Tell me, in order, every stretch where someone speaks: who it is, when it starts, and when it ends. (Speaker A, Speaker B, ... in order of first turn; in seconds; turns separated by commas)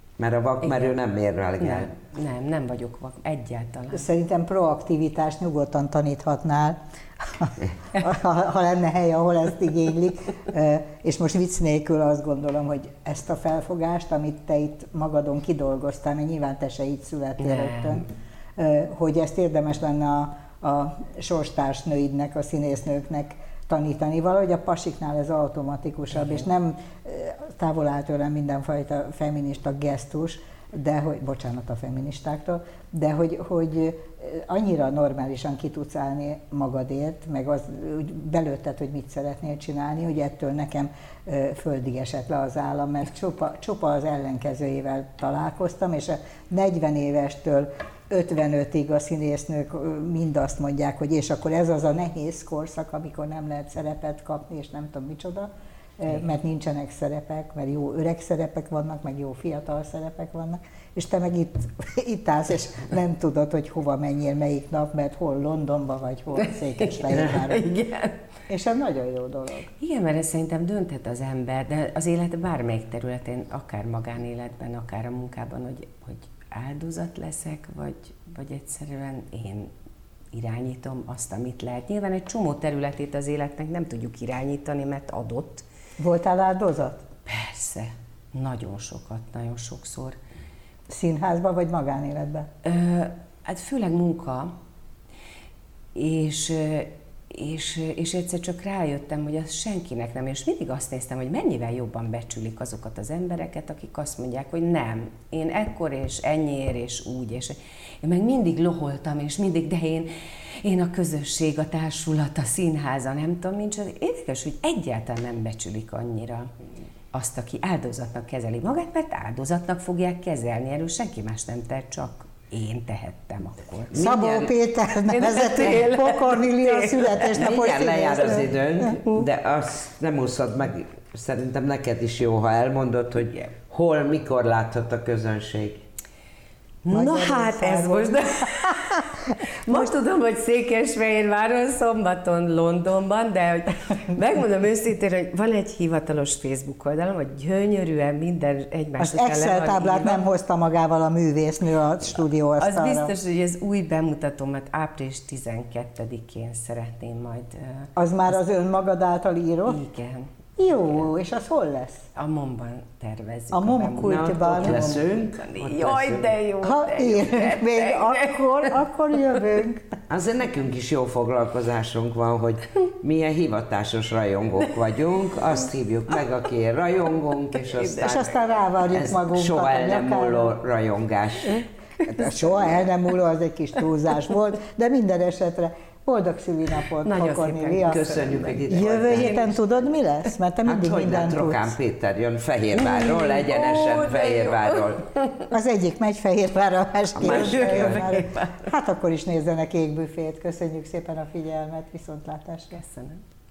Speaker A: 0.2-1.9, Speaker B: 0.6-0.9, Speaker B: 1.6-4.0, Speaker C: 3.9-18.0, Speaker B: 17.4-18.0, Speaker C: 18.6-67.7, Speaker B: 66.8-68.2, Speaker C: 68.5-69.7, Speaker B: 69.8-79.7, Speaker B: 80.3-85.6, Speaker C: 86.0-87.0, Speaker B: 87.2-90.2, Speaker C: 90.9-92.5, Speaker B: 92.6-94.5, Speaker B: 95.9-116.5, Speaker B: 117.1-124.2, Speaker A: 123.9-124.5, Speaker C: 123.9-129.2, Speaker B: 125.1-127.3, Speaker A: 127.3-135.8, Speaker B: 136.8-150.2, Speaker C: 136.9-139.0, Speaker C: 149.0-153.1, Speaker B: 152.6-157.9, Speaker C: 158.0-159.8, Speaker B: 159.7-160.3, Speaker C: 160.6-162.1, Speaker B: 162.1-168.7, Speaker C: 163.5-164.9, Speaker A: 164.0-166.4, Speaker C: 166.6-170.0, Speaker A: 170.1-178.4, Speaker B: 177.7-178.1, Speaker C: 178.0-180.6, Speaker A: 178.9-181.7, Speaker C: 182.0-188.1, Speaker B: 187.0-189.4, Speaker A: 187.9-189.6, Speaker C: 188.7-191.7, Speaker A: 190.6-195.1, Speaker B: 192.8-195.5, Speaker C: 195.5-202.8, Speaker A: 197.2-198.2, Speaker B: 197.2-198.7, Speaker B: 202.7-203.2